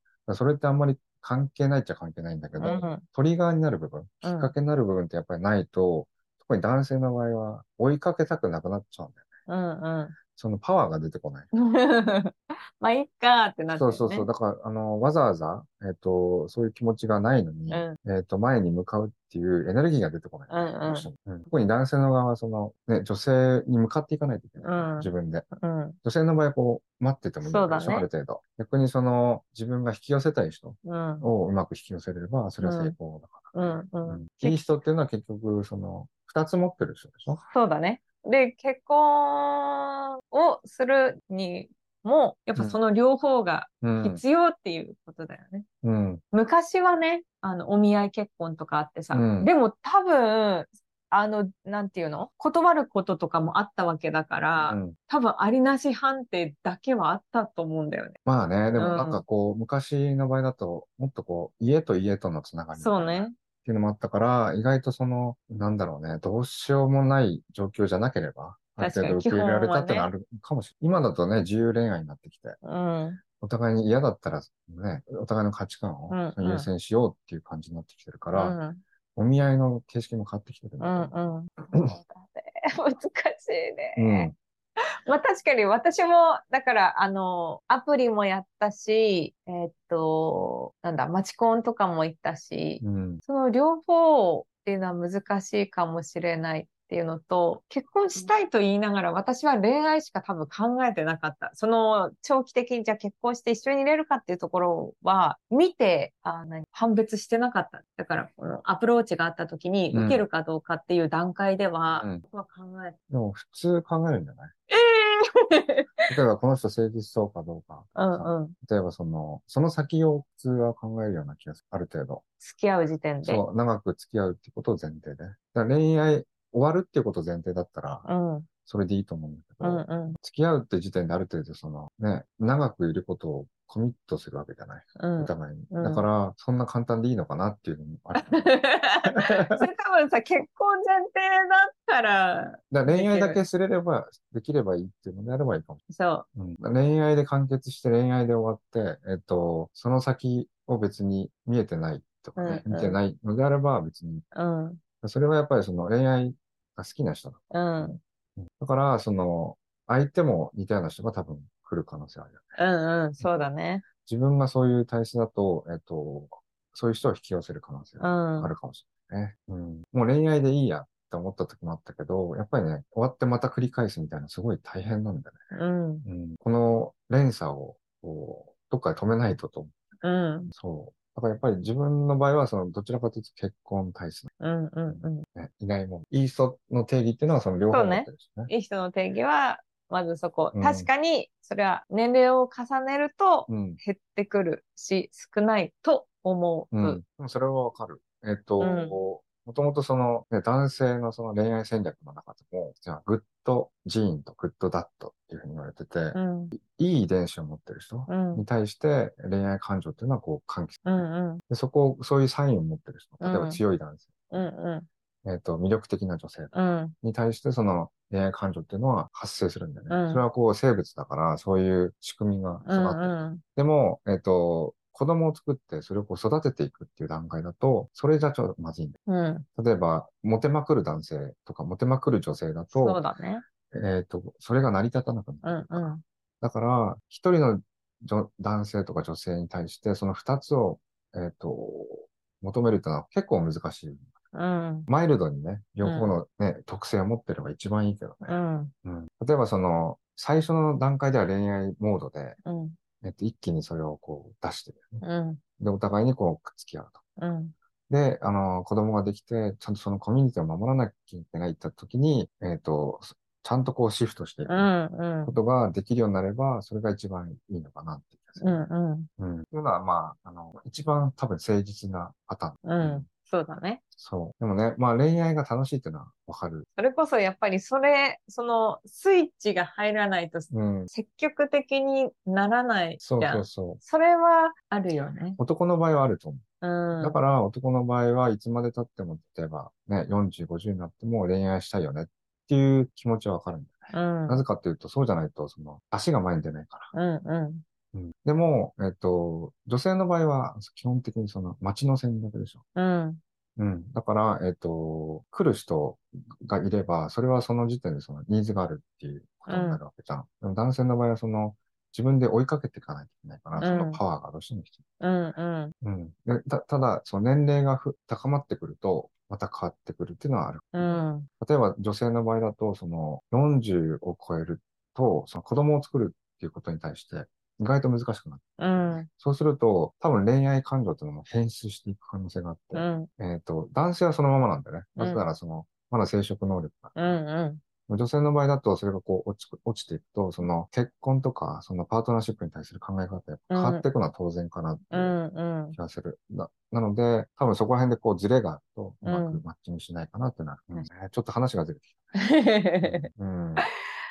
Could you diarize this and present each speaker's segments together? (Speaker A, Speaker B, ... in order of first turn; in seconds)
Speaker A: 0.3-9.2, 10.3-11.5, 13.7-25.5, 26.0-37.4, 43.8-44.2, 45.8-46.2, 49.1-49.5, 54.6-54.9, 58.3-72.6, 73.4-78.6, 79.2-81.1, 84.0-84.3, 92.8-93.2, 109.9-110.3, 111.9-112.2, 113.1-114.5, 116.1-122.2, 123.2-128.1, 128.7-138.5, 139.0-139.7, 142.7-145.8, 146.3-154.3, 155.0-162.6, 164.1-179.7, 180.5-184.3, 184.9-188.5, 190.5-190.9, 193.5-193.8, 196.7-210.8, 211.5-214.1, 215.2-229.0, 229.6-233.0, 233.7-244.1, 244.9-252.4, 253.0-255.0, 255.6-257.0, 257.9-264.7, 265.2-268.6, 269.2-273.1, 273.9-276.7, 280.5-280.9, 283.0-283.8, 285.4-286.4, 287.0-296.9, 297.9-302.6, 303.6-314.8, 315.8-337.2, 337.9-345.2, 345.8-352.1, 352.8-353.7
Speaker B: 2.6-3.0, 4.2-4.5, 9.5-10.2, 11.5-14.3, 17.7-18.0, 20.5-21.1, 24.6-26.0, 27.4-28.1, 30.8-31.3, 32.6-33.0, 33.5-34.7, 37.5-45.7, 46.3-58.2, 58.7-59.2, 62.8-63.4, 68.8-70.1, 72.6-73.2, 76.1-76.7, 78.3-78.8, 80.8-84.3, 85.1-113.0, 114.7-116.1, 118.0-118.5, 122.4-123.4, 128.1-128.5, 129.6-130.2, 135.0-136.1, 138.2-143.4, 145.9-146.3, 152.4-153.0, 154.3-154.8, 157.5-158.0, 162.6-163.8, 168.0-168.5, 175.5-176.1, 180.0-180.5, 184.4-185.3, 187.7-197.0, 198.6-199.0, 206.1-206.6, 208.1-208.4, 210.8-211.4, 213.2-213.6, 214.3-214.9, 216.5-216.9, 219.9-220.2, 222.7-223.4, 229.1-229.5, 232.8-233.4, 235.4-236.0, 244.3-244.9, 245.8-246.2, 248.3-248.7, 252.4-252.8, 255.0-255.4, 257.2-257.5, 264.5-265.3, 268.4-269.1, 272.6-273.8, 276.8-285.4, 286.6-287.2, 293.9-294.4, 296.9-297.6, 302.8-303.2, 309.5-309.8, 313.6-314.0, 315.0-315.7, 320.7-321.3, 328.6-329.1, 332.7-333.1, 335.0-335.2, 337.0-337.6, 343.5-343.9, 344.9-345.8, 349.0-349.4, 352.1-353.7